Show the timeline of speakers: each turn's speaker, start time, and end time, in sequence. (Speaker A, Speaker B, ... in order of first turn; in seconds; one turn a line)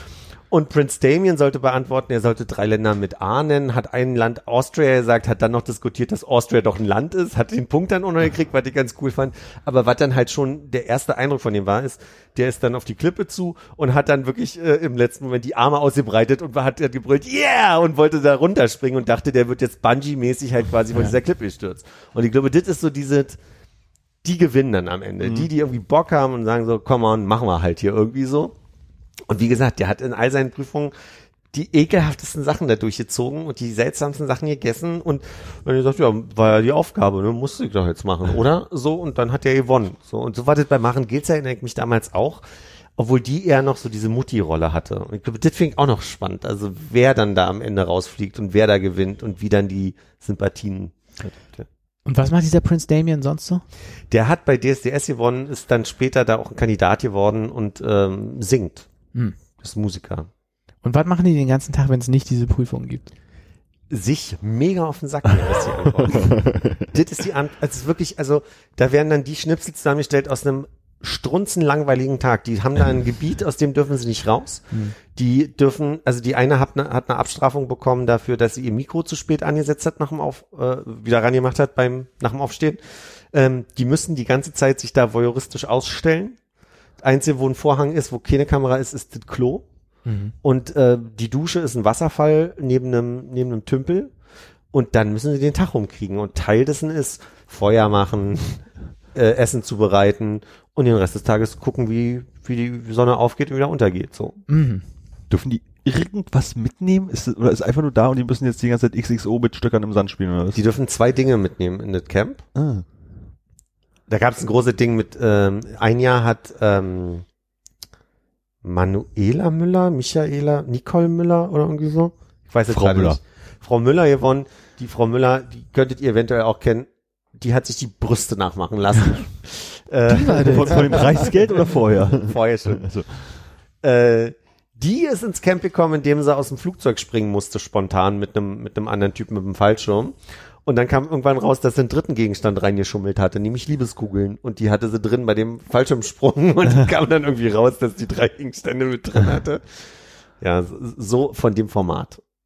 Speaker A: 0.5-23.4
Speaker A: 24.2-28.5
Speaker B: 25.2-25.5
Speaker A: 29.3-30.9
Speaker A: 31.5-42.4
Speaker A: 43.0-50.9
Speaker B: 51.2-51.6
Speaker C: 52.0-53.6
Speaker A: 54.1-58.9
Speaker A: 59.6-60.3
Speaker C: 60.8-63.1
Speaker A: 63.9-86.4
Speaker B: 66.2-66.6
Speaker C: 74.7-75.0
Speaker A: 87.0-89.6
Speaker C: 90.0-90.3
Speaker A: 90.4-94.1
Speaker A: 94.7-104.4
Speaker C: 104.5-104.8
Speaker B: 105.3-110.6
Speaker A: 110.5-112.4
Speaker B: 112.5-112.8
Speaker A: 114.1-117.2
Speaker A: 118.6-132.9
Speaker B: 122.7-123.2
Speaker C: 130.1-131.0
Speaker B: 130.5-133.4
Speaker A: 133.8-152.2